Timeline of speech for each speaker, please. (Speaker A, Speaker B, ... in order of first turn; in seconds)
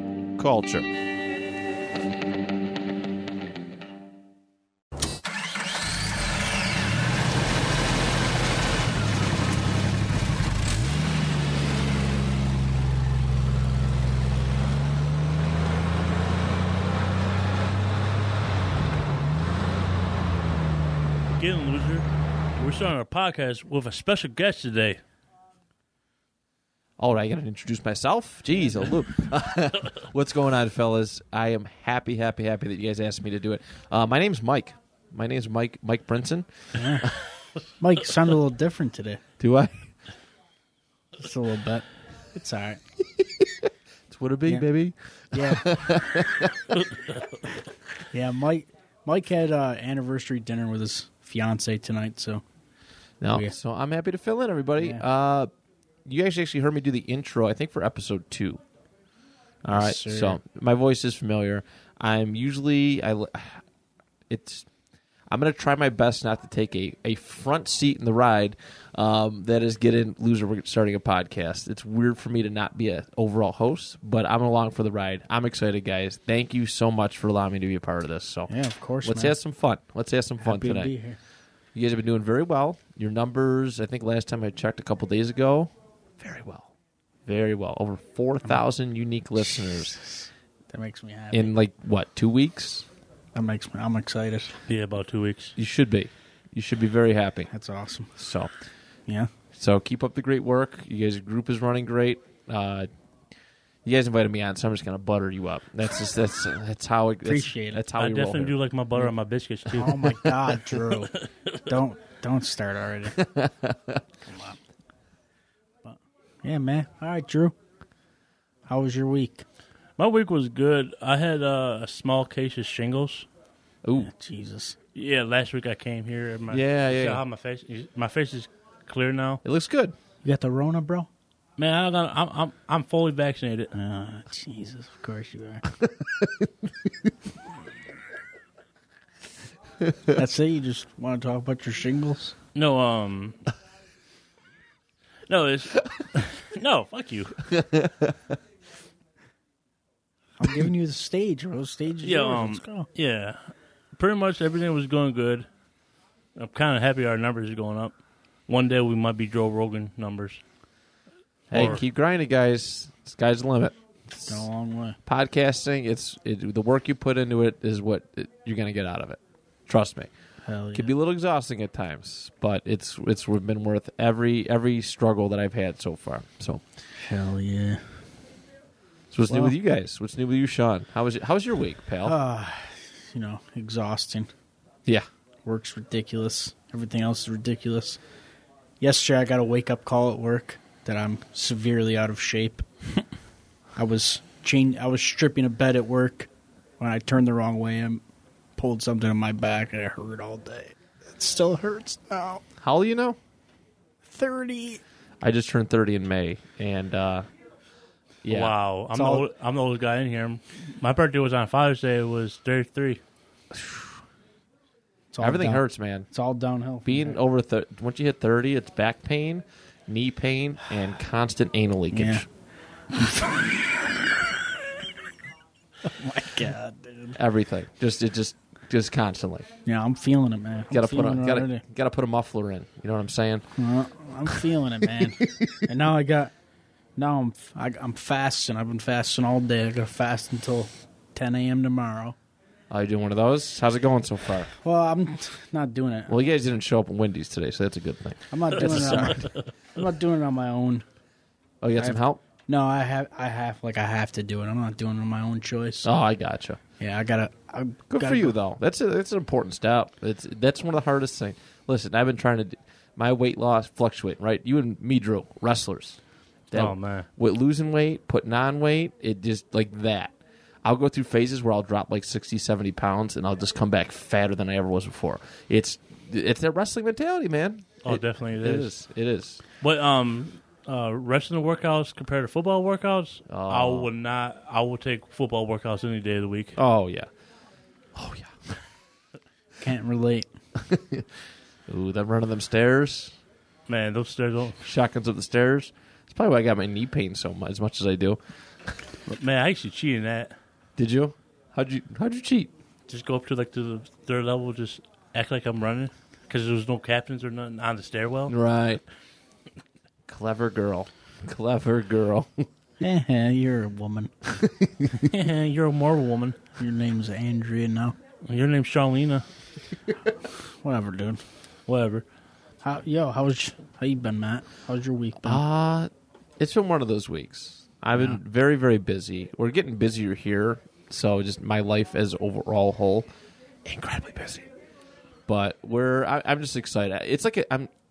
Speaker A: 0.3-0.9, 27.0-37.2, 39.4-39.9, 43.2-46.8, 53.2-55.5, 56.0-58.6, 59.6-63.6, 64.3-64.7, 65.3-78.5, 79.0-80.9, 81.7-86.7, 87.2-90.0, 91.3-92.9, 95.5-97.5, 98.2-98.5, 99.5-102.9, 103.8-108.5, 113.2-114.0, 123.8-124.1, 126.5-127.2, 129.4-129.9, 136.0-136.5, 147.5-148.2, 161.5-164.5, 165.1-170.1, 170.7-176.6, 179.1-182.2, 202.6-203.2, 205.2-207.3, 208.2-208.5, 213.5-214.0, 215.2-216.1, 216.8-222.2, 227.2-229.5, 230.7-233.5, 235.0-235.6, 242.7-244.5, 246.1-249.3, 251.6-252.2, 255.8-256.6, 257.9-266.0, 266.5-279.4, 283.3-283.9, 286.6-287.1, 287.9-288.6, 290.6-291.1, 291.7-293.1, 294.6-298.7, 300.8-302.5, 308.3-308.8, 310.1-312.5, 314.3-315.1, 325.2-333.1, 333.6-334.5, 335.3-337.7
Speaker B: 21.3-22.1, 22.6-25.0, 94.7-95.5, 108.0-111.5, 120.0-123.3, 125.0-129.4, 131.6-133.7, 142.6-143.4, 145.3-147.5, 152.0-155.5, 156.4-157.9, 158.5-160.4, 161.5-161.8, 208.3-213.0, 248.9-249.2, 266.5-267.1, 277.8-278.7, 279.6-286.6, 293.7-294.6, 299.1-300.3, 302.9-308.3, 315.0-316.4, 318.2-319.2, 321.7-322.0
Speaker C: 36.8-37.2, 37.8-39.2, 41.2-42.8, 45.3-45.7, 48.1-52.4, 54.8-55.0, 59.7-60.4, 78.5-79.3, 80.4-81.2, 89.8-91.5, 93.3-94.5, 97.5-98.1, 107.2-107.8, 109.7-111.1, 111.7-113.2, 114.3-114.6, 115.8-117.5, 118.7-119.5, 124.0-124.8, 130.2-131.1, 133.7-135.6, 140.1-142.3, 150.4-152.9, 164.3-165.0, 170.4-170.9, 177.0-177.8, 179.3-179.6, 182.0-184.3, 185.4-188.0, 188.8-193.0, 193.8-198.0, 198.6-202.4, 204.1-204.8, 208.9-209.3, 215.1-217.2, 221.9-222.2, 223.0-223.3, 225.9-227.2, 229.7-231.6, 233.6-236.3, 237.0-242.2, 244.6-246.2, 248.3-250.8, 251.8-255.9, 256.8-258.4, 289.6-290.3, 312.8-314.1, 316.6-317.9, 320.6-321.2, 322.6-325.4